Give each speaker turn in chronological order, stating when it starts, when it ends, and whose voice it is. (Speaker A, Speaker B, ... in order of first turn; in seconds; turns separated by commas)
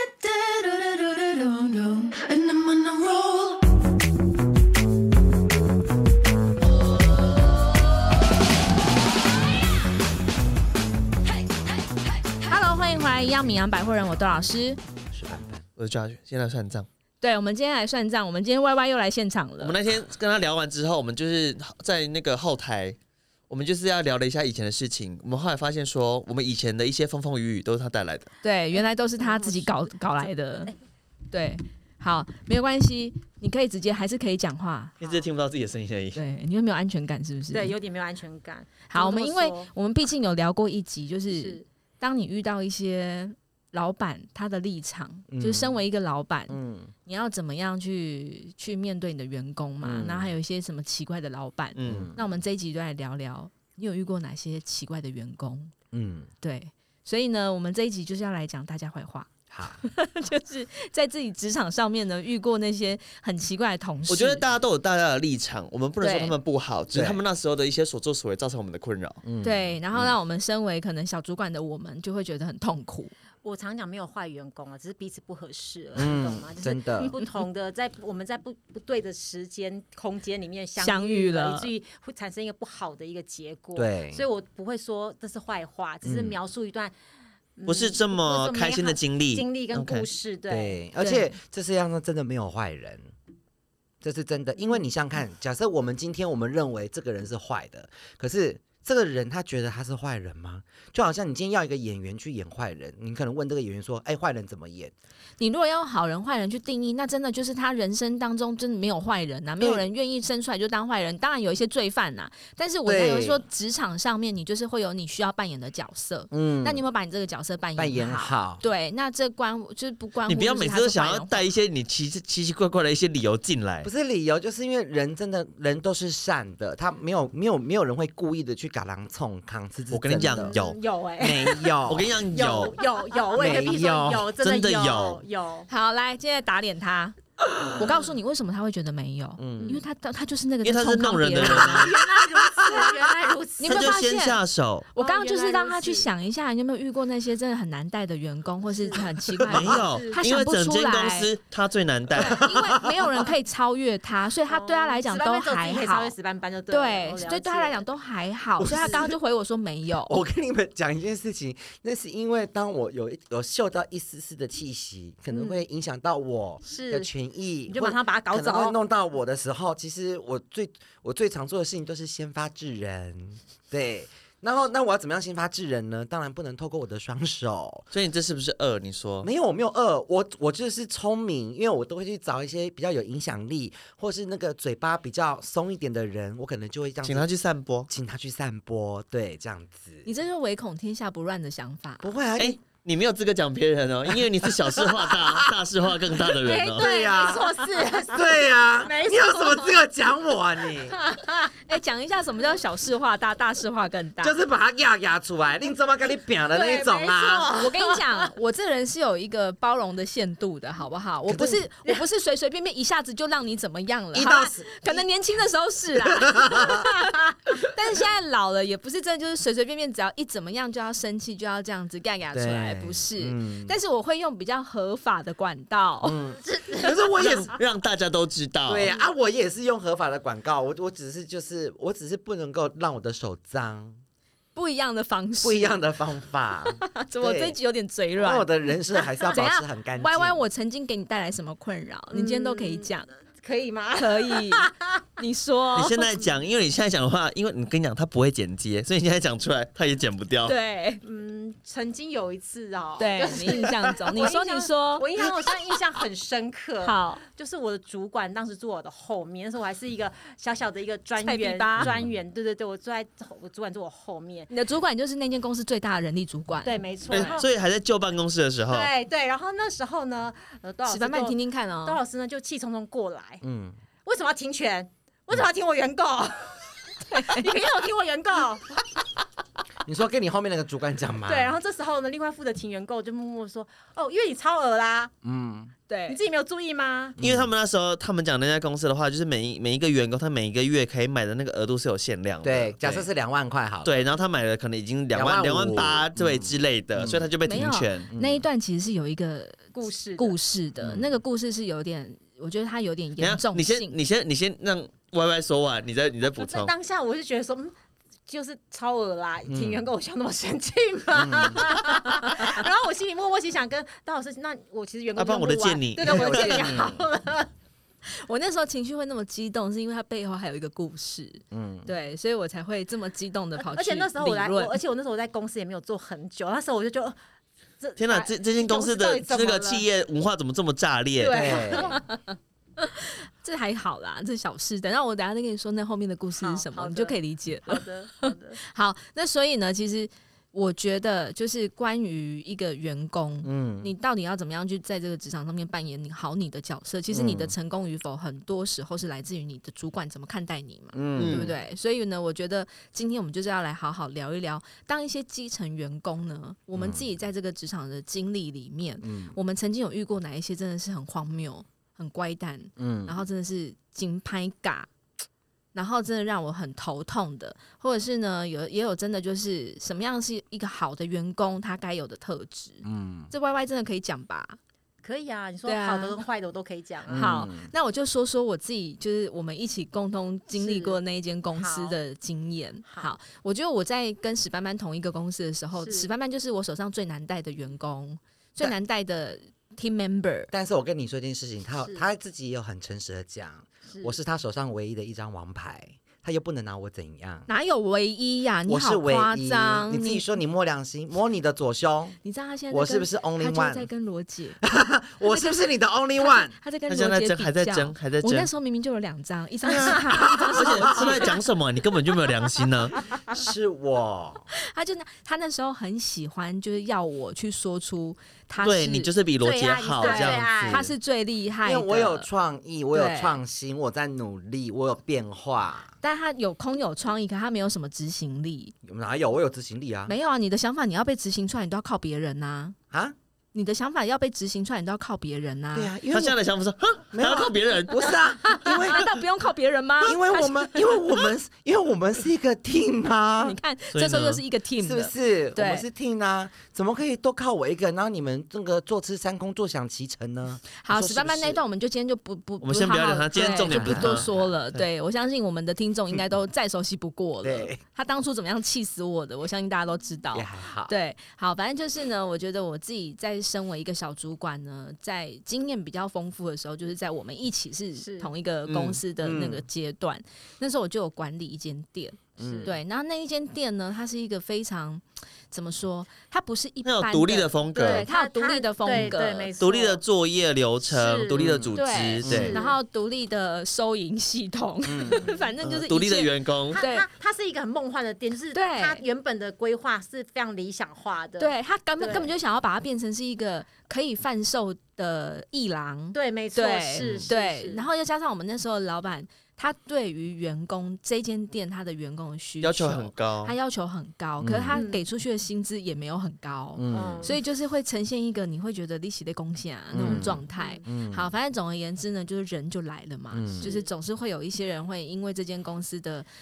Speaker A: 0.2-0.6, Speaker A: 1.4-3.5, Speaker B: 12.4-14.8, Speaker C: 14.9-15.6, Speaker D: 15.8-16.9, Speaker B: 17.2-19.8, Speaker D: 19.6-23.0, Speaker D: 23.5-28.3, Speaker B: 28.4-30.7, Speaker E: 29.2-30.7, Speaker B: 31.3-34.9, Speaker E: 35.0-35.2, Speaker D: 35.0-36.2, Speaker B: 36.1-37.7, Speaker E: 37.5-39.7, Speaker B: 38.9-55.7, Speaker E: 41.3-41.6, Speaker C: 45.3-45.8, Speaker C: 46.5-46.9, Speaker C: 49.8-50.3, Speaker D: 51.7-52.1, Speaker C: 51.8-52.2, Speaker C: 55.9-56.3, Speaker B: 56.4-59.3, Speaker C: 59.5-59.8, Speaker B: 59.8-64.4, Speaker D: 64.1-69.2, Speaker B: 66.0-66.3, Speaker C: 66.9-67.2, Speaker C: 69.2-70.1, Speaker B: 69.4-73.1, Speaker E: 73.4-86.9, Speaker C: 76.0-77.1, Speaker B: 80.8-81.7, Speaker C: 83.8-84.2, Speaker C: 86.0-86.4, Speaker E: 87.6-90.8, Speaker D: 87.7-90.0, Speaker C: 90.5-93.1, Speaker B: 91.0-91.4, Speaker C: 94.0-104.9, Speaker E: 94.6-94.8, Speaker B: 105.4-121.5, Speaker C: 109.6-109.8, Speaker C: 112.8-113.4, Speaker C: 116.3-116.8, Speaker C: 117.8-118.6, Speaker D: 120.3-123.9, Speaker C: 123.8-130.5, Speaker D: 129.9-130.8, Speaker E: 130.2-131.8, Speaker C: 131.2-132.2, Speaker D: 131.8-132.7, Speaker E: 132.3-135.7, Speaker C: 133.3-134.3, Speaker D: 134.3-135.2, Speaker B: 135.7-137.2, Speaker B: 137.7-141.9, Speaker C: 139.4-139.8, Speaker D: 140.6-141.9, Speaker E: 141.4-143.9, Speaker C: 142.0-142.9, Speaker B: 143.6-144.4, Speaker D: 143.6-144.9, Speaker B: 144.9-151.3, Speaker E: 145.0-146.1, Speaker E: 148.7-150.2, Speaker C: 149.4-149.7, Speaker D: 149.4-152.4, Speaker B: 152.2-156.1, Speaker C: 152.2-152.9, Speaker E: 154.5-157.8, Speaker B: 156.7-160.2, Speaker C: 158.6-159.1, Speaker C: 160.1-177.9, Speaker E: 165.3-165.6, Speaker E: 166.6-167.1, Speaker E: 167.7-168.8, Speaker D: 177.9-179.3, Speaker C: 179.2-187.3, Speaker D: 187.0-187.9, Speaker C: 187.9-190.1, Speaker B: 190.0-192.1, Speaker C: 192.0-192.6, Speaker D: 192.4-196.8, Speaker C: 194.1-195.6, Speaker E: 196.4-199.7, Speaker C: 196.8-197.5, Speaker B: 197.0-198.0, Speaker C: 198.1-201.0, Speaker E: 200.9-201.5, Speaker B: 201.7-204.4, Speaker C: 204.2-207.5, Speaker E: 206.5-208.3, Speaker B: 207.5-226.2, Speaker C: 211.3-211.7, Speaker C: 214.1-215.0, Speaker C: 216.0-216.9, Speaker C: 222.3-223.8, Speaker C: 226.0-227.6, Speaker E: 226.5-226.9, Speaker D: 227.1-228.9, Speaker C: 228.7-234.0, Speaker B: 234.5-235.8, Speaker C: 235.4-237.6, Speaker B: 236.8-238.7, Speaker C: 238.2-240.4, Speaker B: 239.2-243.1, Speaker E: 242.1-245.1, Speaker B: 244.0-246.1, Speaker D: 245.7-250.5, Speaker B: 250.4-251.0, Speaker E: 251.0-264.5, Speaker B: 253.0-255.1, Speaker B: 256.8-257.2, Speaker B: 261.2-261.9, Speaker B: 264.5-267.4, Speaker E: 266.6-267.5, Speaker D: 267.1-268.9, Speaker E: 268.7-273.4, Speaker B: 270.9-272.0, Speaker C: 273.4-273.8, Speaker E: 274.0-278.8, Speaker B: 277.1-277.4, Speaker C: 279.8-281.6, Speaker E: 281.2-285.1, Speaker C: 285.2-285.7, Speaker B: 285.9-286.2, Speaker E: 286.1-287.1, Speaker C: 287.2-287.5, Speaker D: 287.2-293.1, Speaker C: 292.4-293.9, Speaker D: 293.8-298.1, Speaker C: 295.1-297.3, Speaker B: 297.4-303.9, Speaker C: 298.1-298.4, Speaker E: 299.7-300.4, Speaker C: 300.8-301.1, Speaker D: 303.2-306.7, Speaker E: 306.4-307.7, Speaker E: 308.3-317.5, Speaker C: 309.5-309.9, Speaker C: 311.1-311.6, Speaker D: 315.1-316.8, Speaker C: 316.1-317.0, Speaker B: 318.0-324.8, Speaker C: 321.5-321.9, Speaker E: 323.6-327.2, Speaker E: 327.8-329.9, Speaker D: 328.0-331.6, Speaker E: 331.2-332.0, Speaker C: 331.2-331.9, Speaker B: 331.9-332.2, Speaker B: 332.8-364.9, Speaker E: 336.4-338.6, Speaker C: 343.4-343.9, Speaker C: 347.1-347.5, Speaker C: 350.9-351.5, Speaker D: 351.1-351.5, Speaker C: 356.8-357.0, Speaker C: 359.0-359.4, Speaker C: 362.8-363.2, Speaker B: 365.7-374.6, Speaker C: 372.8-373.3, Speaker E: 375.0-377.4, Speaker B: 375.6-376.2, Speaker C: 377.1-377.7, Speaker B: 377.1-390.5, Speaker E: 380.5-381.0, Speaker E: 381.5-382.0, Speaker E: 382.9-383.1, Speaker E: 385.8-386.1, Speaker C: 390.5-397.5, Speaker E: 393.9-394.2, Speaker B: 397.5-400.3, Speaker C: 398.6-402.2, Speaker B: 402.2-404.6, Speaker C: 402.7-403.9, Speaker C: 404.6-406.5, Speaker B: 405.2-405.6, Speaker B: 406.1-411.4, Speaker D: 406.9-408.5, Speaker D: 409.6-413.0, Speaker C: 410.2-411.2, Speaker C: 413.3-414.4, Speaker B: 414.6-419.1, Speaker D: 418.6-420.8, Speaker E: 419.4-420.8, Speaker B: 420.0-422.3, Speaker C: 420.3-420.9, Speaker C: 421.6-425.9, Speaker B: 422.9-423.4, Speaker B: 426.0-428.7, Speaker C: 428.8-430.1, Speaker B: 430.1-432.8, Speaker B: 433.5-435.9, Speaker C: 435.7-436.4, Speaker D: 436.1-438.2, Speaker C: 437.1-439.1, Speaker B: 438.6-441.1, Speaker C: 440.0-443.6, Speaker B: 443.4-445.8, Speaker D: 443.9-444.4, Speaker C: 444.8-451.6, Speaker B: 450.8-479.5, Speaker D: 452.6-454.8, Speaker C: 453.5-454.5, Speaker C: 457.4-457.8, Speaker C: 460.3-460.9, Speaker E: 468.0-468.3, Speaker D: 468.7-469.0, Speaker C: 469.2-469.6, Speaker C: 472.4-472.8, Speaker E: 472.4-472.7, Speaker D: 476.8-478.1, Speaker E: 477.7-480.0, Speaker D: 479.6-482.6, Speaker E: 480.9-481.6, Speaker C: 481.3-482.5, Speaker B: 481.7-487.1, Speaker E: 482.3-482.8, Speaker C: 484.8-485.3, Speaker D: 485.6-486.8, Speaker E: 486.7-492.3, Speaker B: 488.5-489.0, Speaker B: 491.4-516.3, Speaker E: 496.1-497.9, Speaker D: 497.0-497.3, Speaker D: 502.6-503.5, Speaker C: 504.4-504.8, Speaker E: 504.7-505.0, Speaker C: 506.7-507.4, Speaker E: 506.9-507.4, Speaker C: 509.9-511.3, Speaker E: 510.0-510.8, Speaker C: 513.3-513.7, Speaker E: 513.6-513.9